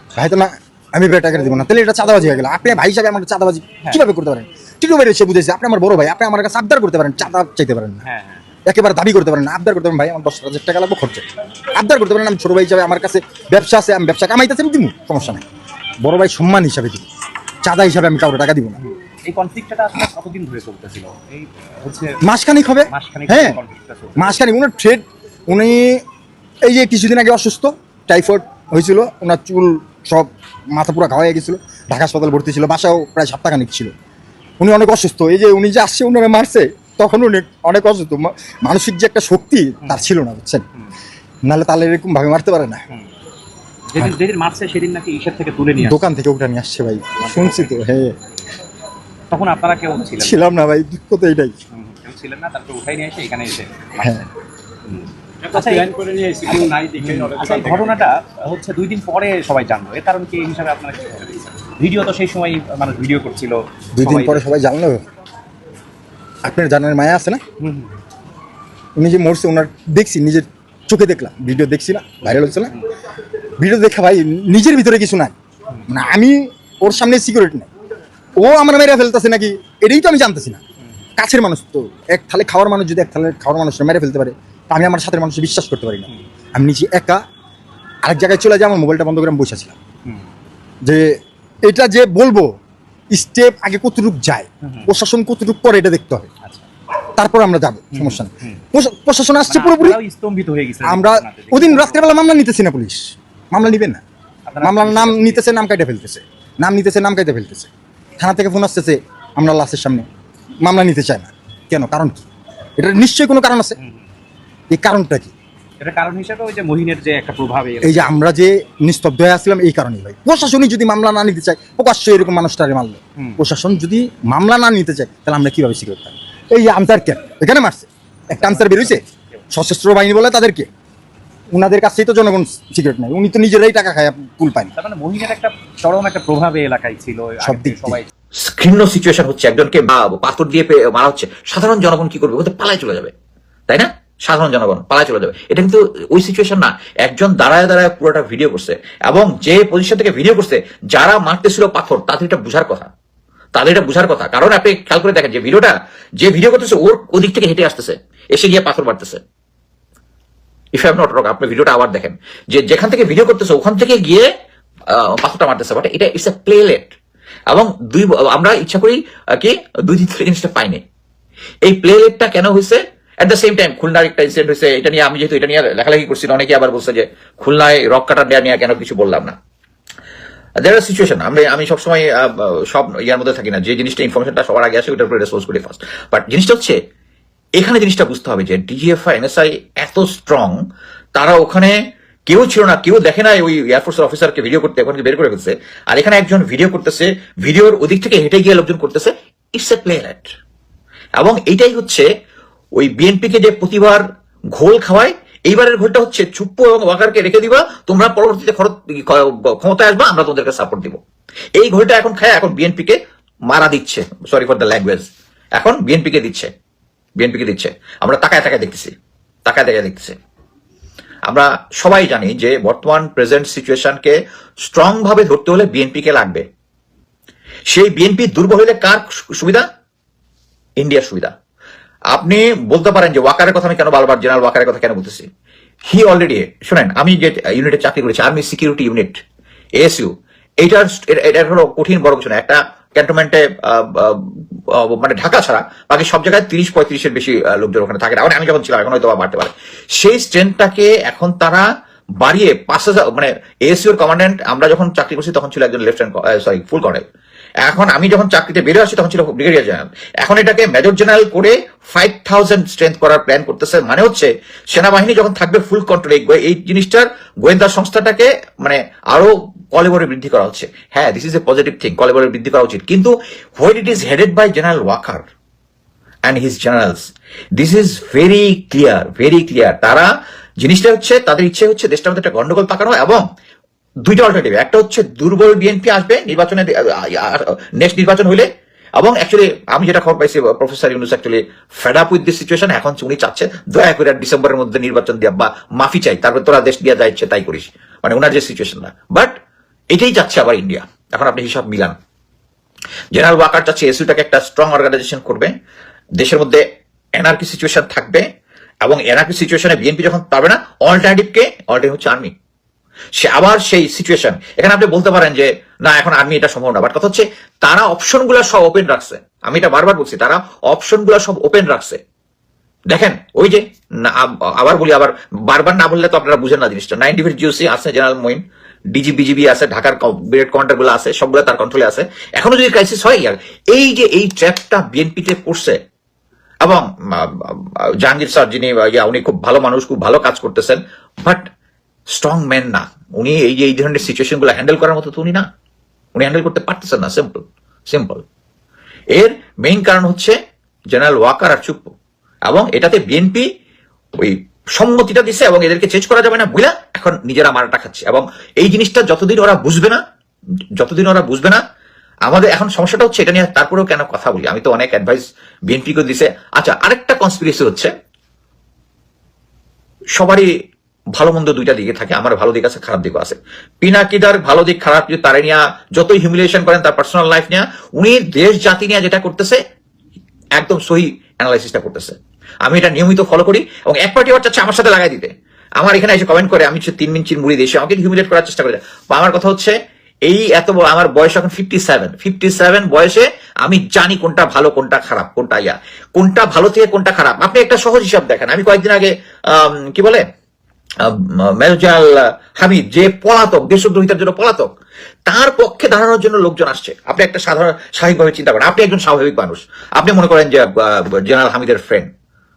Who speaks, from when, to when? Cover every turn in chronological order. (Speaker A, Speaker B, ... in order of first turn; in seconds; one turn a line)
Speaker A: 0.1-8.0
Speaker B: 8.0-8.4
Speaker A: 8.7-15.4
Speaker A: 16.0-17.1
Speaker A: 17.6-18.8
Speaker B: 18.8-22.2
Speaker A: 22.2-23.6
Speaker B: 22.9-24.3
Speaker A: 24.2-26.0
Speaker A: 26.6-33.9
Speaker A: 34.6-40.6
Speaker A: 41.5-42.8
Speaker B: 43.9-46.0
Speaker A: 45.8-48.1
Speaker B: 47.3-47.7
Speaker B: 49.3-50.5
Speaker A: 50.2-51.5
Speaker B: 51.7-54.3
Speaker B: 54.9-64.5
Speaker A: 64.0-65.0
Speaker A: 66.4-67.4
Speaker B: 67.6-67.9
Speaker A: 69.0-72.7
Speaker A: 73.6-75.3
Speaker A: 75.9-77.7
Speaker A: 78.4-80.6
Speaker A: 81.2-87.2
Speaker A: 88.0-89.8
Speaker A: 90.8-92.5
Speaker A: 93.1-96.3
Speaker A: 97.2-100.0
Speaker B: 97.9-98.6
Speaker B: 99.5-102.0
Speaker A: 100.8-104.0
Speaker B: 104.5-105.5
Speaker A: 104.6-110.1
Speaker A: 110.6-112.2
Speaker A: 112.8-113.8
Speaker A: 114.7-115.3
Speaker B: 115.8-118.1
Speaker A: 117.8-130.7
Speaker B: 128.3-129.0
Speaker A: 131.5-134.7
Speaker B: 134.8-138.1
Speaker A: 137.4-138.0
Speaker C: 138.4-143.1
Speaker C: 143.7-152.9
Speaker C: 153.5-159.2
Speaker C: 160.7-164.3
Speaker C: 164.9-166.9
Speaker C: 167.5-170.8
Speaker C: 171.6-179.4
Speaker C: 180.6-186.8
Speaker C: 187.6-190.6
Speaker C: 191.1-200.3
Speaker C: 201.2-202.1
Speaker C: 202.8-211.0
Speaker C: 211.6-216.5
Speaker C: 217.2-218.9
Speaker C: 219.4-220.2
Speaker C: 221.3-224.1
Speaker C: 224.7-226.4
Speaker C: 227.7-229.7
Speaker C: 230.8-231.3
Speaker C: 232.1-235.3
Speaker C: 235.9-239.2
Speaker C: 239.8-251.7
Speaker C: 252.2-257.0
Speaker C: 257.6-275.2
Speaker C: 276.2-280.1
Speaker C: 280.6-283.2
Speaker C: 284.0-288.5
Speaker C: 289.0-299.4
Speaker C: 299.9-301.9
Speaker C: 303.1-305.5
Speaker C: 306.2-306.6
Speaker C: 307.1-308.2
Speaker C: 308.8-312.3
Speaker C: 313.1-322.0
Speaker C: 322.9-328.4
Speaker C: 328.9-335.8
Speaker C: 336.6-341.5
Speaker C: 342.1-345.5
Speaker C: 346.1-348.2
Speaker C: 349.1-350.4
Speaker C: 350.9-351.9
Speaker C: 352.5-353.4
Speaker C: 354.2-360.0
Speaker C: 360.8-361.6
Speaker C: 362.2-367.9
Speaker C: 370.1-370.5
Speaker C: 371.1-379.6
Speaker C: 380.6-389.7
Speaker C: 390.2-400.2
Speaker C: 401.0-404.7
Speaker C: 405.2-412.1